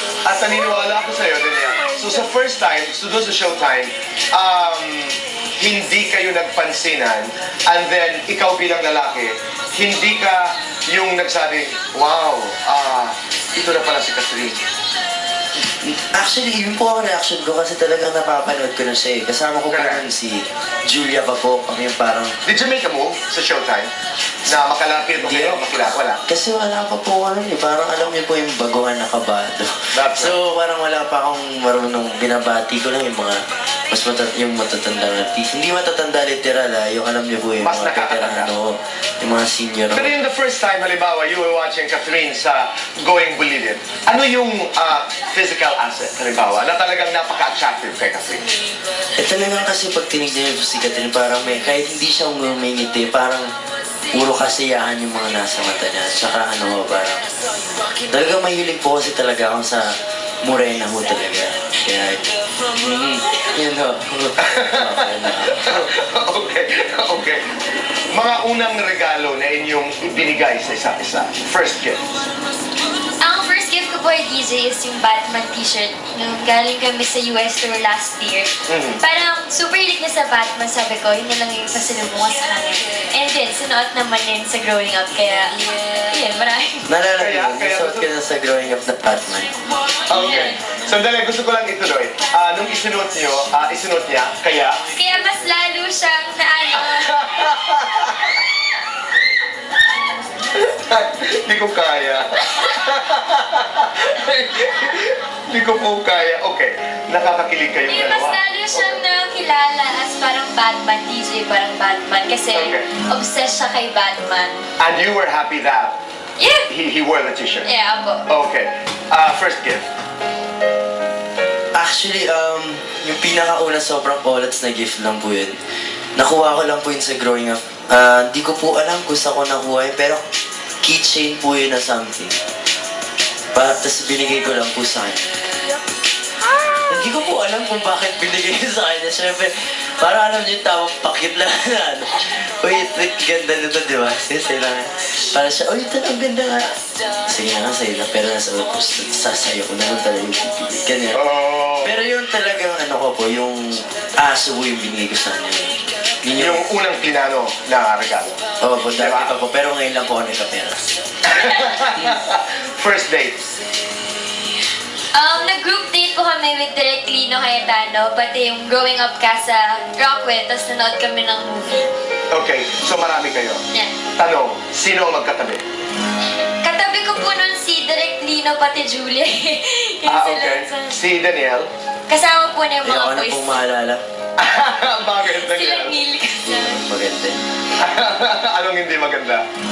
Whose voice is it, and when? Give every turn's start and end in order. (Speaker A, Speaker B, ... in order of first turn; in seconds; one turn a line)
Speaker A: 0.2-14.6
Speaker B: 15.8-22.4
Speaker A: 19.7-20.1
Speaker A: 22.4-23.9
Speaker A: 24.4-26.2
Speaker B: 25.2-40.1
Speaker A: 29.9-30.4
Speaker A: 37.6-38.5
Speaker A: 39.9-48.4
Speaker B: 49.2-53.5
Speaker B: 54.1-57.2
Speaker B: 58.1-65.9
Speaker A: 64.4-67.5
Speaker A: 68.1-72.0
Speaker C: 73.2-86.9
Speaker A: 78.7-79.0
Speaker B: 86.9-89.5
Speaker A: 87.2-88.1
Speaker A: 90.1-94.8
Speaker C: 90.1-90.6
Speaker C: 94.9-97.3
Speaker A: 96.8-98.3
Speaker A: 100.5-109.0
Speaker C: 107.9-114.6
Speaker A: 112.5-112.8
Speaker A: 114.8-116.0
Speaker C: 116.4-116.7
Speaker A: 116.7-117.7
Speaker C: 117.6-118.2
Speaker A: 118.3-119.9
Speaker B: 121.7-125.6
Speaker B: 126.2-130.2
Speaker B: 130.8-132.4
Speaker B: 133.5-135.3
Speaker B: 136.8-151.2
Speaker A: 151.1-152.0
Speaker B: 151.8-156.6
Speaker A: 156.3-158.4
Speaker B: 158.6-160.9
Speaker A: 158.9-159.3
Speaker A: 161.2-163.4
Speaker C: 161.4-161.7
Speaker C: 165.1-171.9
Speaker A: 172.3-173.6
Speaker A: 174.2-175.6
Speaker C: 176.6-181.0
Speaker A: 180.1-181.7
Speaker C: 182.1-183.5
Speaker B: 182.8-184.0
Speaker A: 184.4-186.0
Speaker C: 185.2-186.9
Speaker B: 186.4-187.4
Speaker A: 187.8-189.4